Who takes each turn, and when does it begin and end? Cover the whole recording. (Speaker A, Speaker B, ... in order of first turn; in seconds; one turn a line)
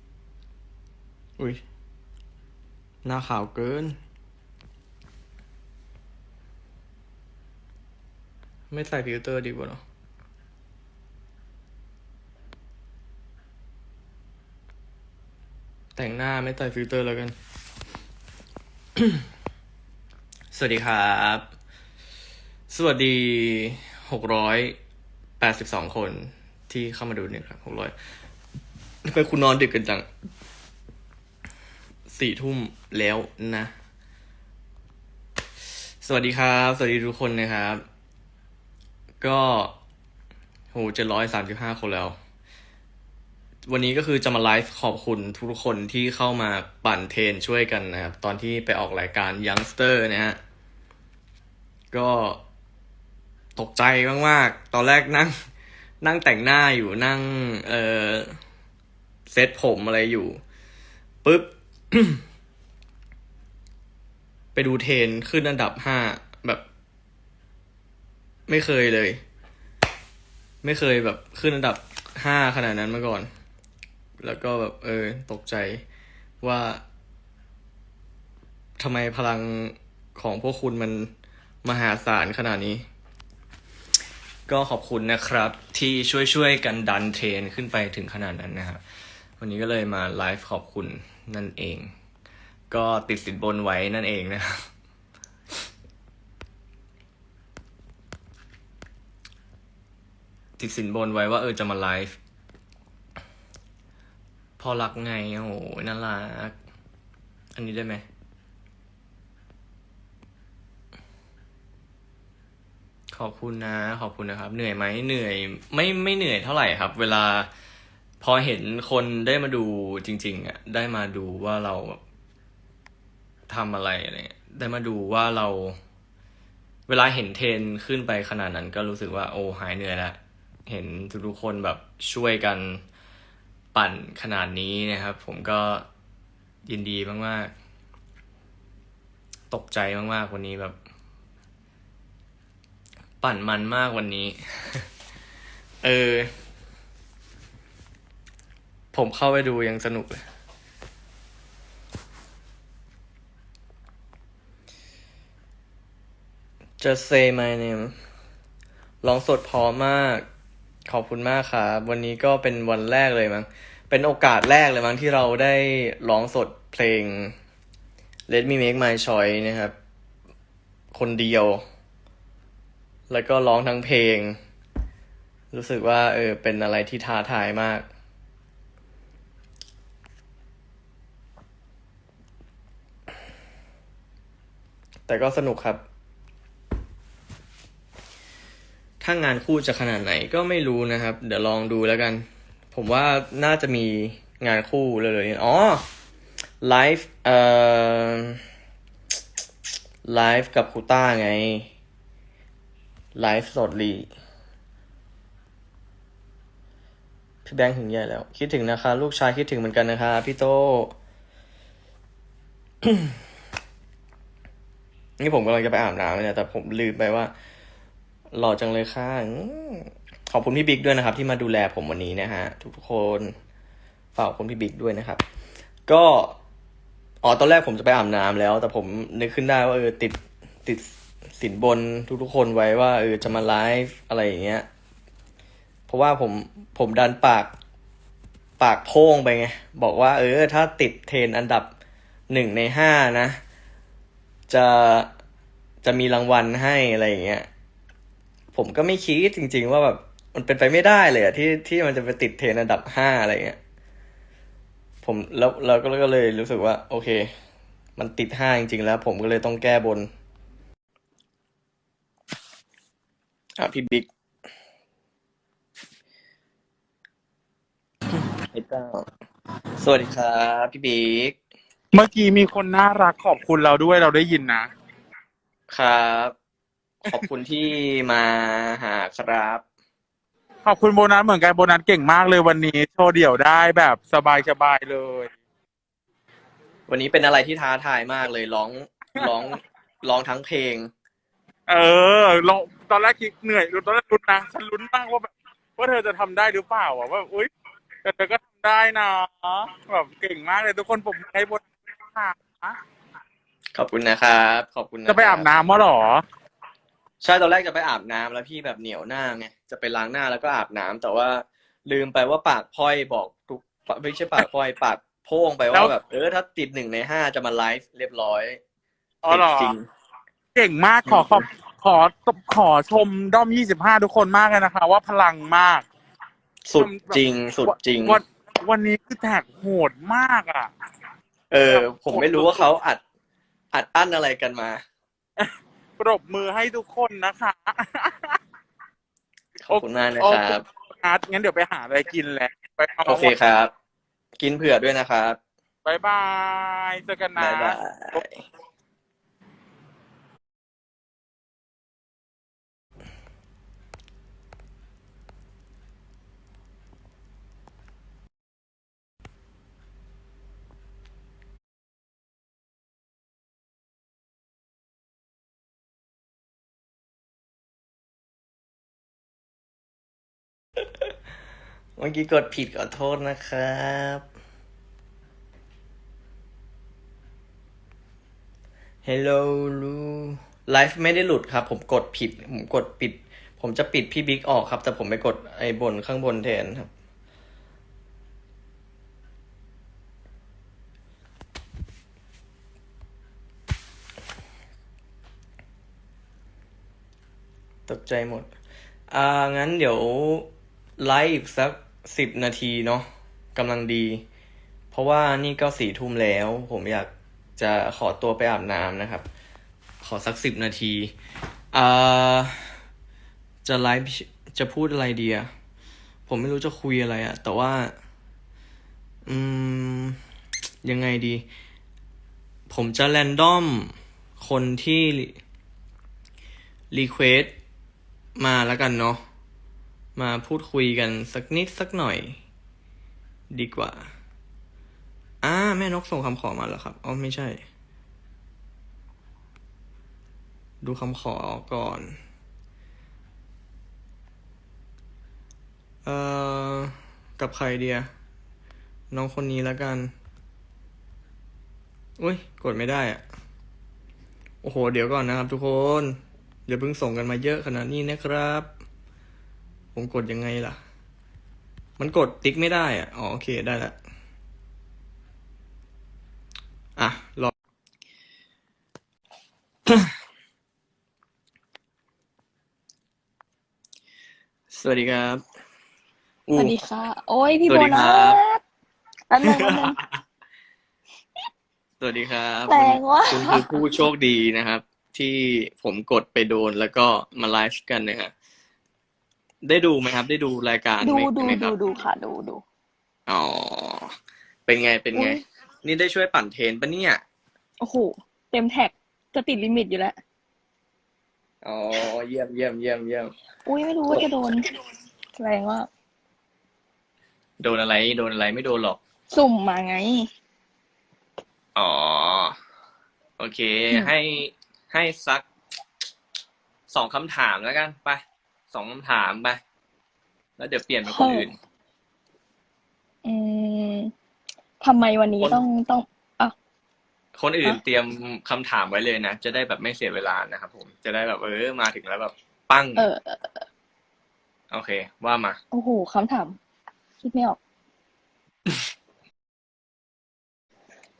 Speaker A: 3.0-4.0
Speaker A: 8.7-9.8
Speaker A: 15.9-17.3
Speaker A: 20.5-21.5
Speaker A: 22.7-24.8
Speaker A: 25.4-27.9
Speaker A: 29.0-30.1
Speaker A: 32.1-33.7
Speaker A: 36.0-37.8
Speaker A: 39.2-39.8
Speaker A: 40.7-42.1
Speaker A: 43.7-50.4
Speaker A: 51.9-52.4
Speaker A: 53.5-55.4
Speaker A: 56.0-58.4
Speaker A: 59.3-60.4
Speaker A: 61.2-62.2
Speaker A: 64.5-66.6
Speaker A: 68.5-69.2
Speaker A: 70.6-73.3
Speaker A: 74.2-75.8
Speaker A: 76.4-76.8
Speaker A: 78.8-81.1
Speaker A: 81.6-82.8
Speaker A: 84.5-88.8
Speaker A: 89.4-91.9
Speaker A: 92.7-94.7
Speaker A: 100.6-102.2
Speaker A: 104.6-106.5
Speaker A: 107.5-108.0
Speaker A: 113.1-117.5
Speaker A: 118.2-122.0
Speaker A: 123.5-125.8
Speaker A: 126.9-132.8
Speaker A: 133.7-135.9
Speaker A: 136.7-137.5
Speaker A: 139.5-140.8
Speaker A: 143.2-144.8
Speaker A: 145.8-146.3
Speaker A: 148.9-150.2
Speaker A: 156.8-157.9
Speaker A: 159.0-160.2
Speaker A: 160.8-167.3
Speaker A: 168.3-169.7
Speaker A: 170.9-171.6
Speaker A: 173.1-174.4
Speaker A: 175.5-177.9
Speaker A: 185.1-185.8
Speaker A: 189.0-195.8
Speaker A: 196.6-198.4
Speaker A: 200.0-201.7
Speaker A: 203.1-204.1
Speaker A: 207.4-210.9
Speaker A: 212.8-213.1
Speaker A: 215.2-217.3
Speaker A: 218.3-223.3
Speaker A: 224.1-225.2
Speaker A: 225.9-226.4
Speaker A: 227.2-234.7
Speaker A: 235.9-237.5
Speaker A: 238.6-241.7
Speaker A: 242.3-243.4
Speaker A: 244.5-245.1
Speaker A: 245.8-247.5
Speaker A: 248.5-253.6
Speaker A: 255.0-257.3
Speaker A: 258.0-260.1
Speaker A: 263.6-264.1
Speaker A: 268.5-269.1
Speaker A: 269.8-271.4
Speaker B: 271.9-274.7
Speaker A: 275.7-276.3
Speaker A: 277.0-279.6
Speaker B: 280.6-285.3
Speaker A: 286.9-290.9
Speaker B: 291.7-297.5
Speaker B: 298.0-302.8
Speaker A: 303.7-305.5
Speaker B: 305.1-306.2
Speaker A: 307.2-318.6
Speaker B: 319.2-319.7
Speaker A: 319.3-319.9
Speaker B: 320.5-325.9
Speaker A: 321.1-321.4
Speaker A: 326.7-328.2
Speaker B: 326.8-330.7
Speaker A: 331.5-333.0
Speaker B: 331.7-332.7
Speaker A: 333.7-334.8
Speaker B: 335.4-338.3
Speaker A: 339.6-340.6
Speaker B: 339.7-343.3
Speaker A: 343.0-343.7
Speaker A: 344.4-345.4
Speaker B: 345.8-348.2
Speaker A: 347.4-348.4
Speaker A: 372.0-374.2
Speaker A: 379.0-386.9
Speaker A: 397.9-398.5
Speaker A: 399.1-404.2
Speaker A: 404.9-409.2
Speaker A: 410.0-411.1
Speaker A: 411.7-412.8
Speaker A: 413.6-415.5
Speaker A: 416.3-417.9
Speaker A: 419.2-420.2
Speaker A: 420.8-421.4
Speaker A: 422.7-425.4
Speaker A: 426.9-427.6
Speaker A: 428.4-429.2
Speaker A: 430.1-432.4
Speaker A: 433.5-434.1
Speaker A: 435.4-437.6
Speaker A: 440.8-442.2
Speaker A: 446.0-448.1
Speaker A: 449.1-450.1
Speaker A: 452.2-453.2
Speaker A: 454.6-458.7
Speaker A: 459.9-460.8
Speaker A: 462.0-463.9
Speaker A: 467.0-467.5
Speaker A: 469.9-470.1
Speaker A: 474.7-475.4
Speaker A: 476.5-476.8
Speaker C: 476.6-478.6
Speaker A: 477.7-478.4
Speaker C: 479.3-480.0
Speaker A: 479.4-479.9
Speaker A: 482.0-488.3
Speaker C: 482.7-483.7
Speaker A: 489.6-491.8
Speaker C: 491.0-492.6
Speaker A: 493.3-494.1
Speaker A: 494.7-497.2
Speaker C: 495.1-495.4
Speaker C: 497.8-500.2
Speaker A: 501.6-503.3
Speaker C: 503.6-504.7
Speaker C: 505.4-505.9
Speaker A: 507.6-509.0
Speaker C: 509.3-510.3
Speaker A: 511.8-512.5
Speaker A: 513.4-515.5
Speaker A: 516.9-519.6
Speaker A: 520.6-521.5
Speaker C: 521.0-521.5
Speaker C: 523.2-524.1
Speaker C: 524.8-526.5
Speaker A: 527.3-533.1
Speaker C: 533.0-533.6
Speaker A: 534.7-535.6
Speaker C: 535.7-536.6
Speaker C: 537.2-537.6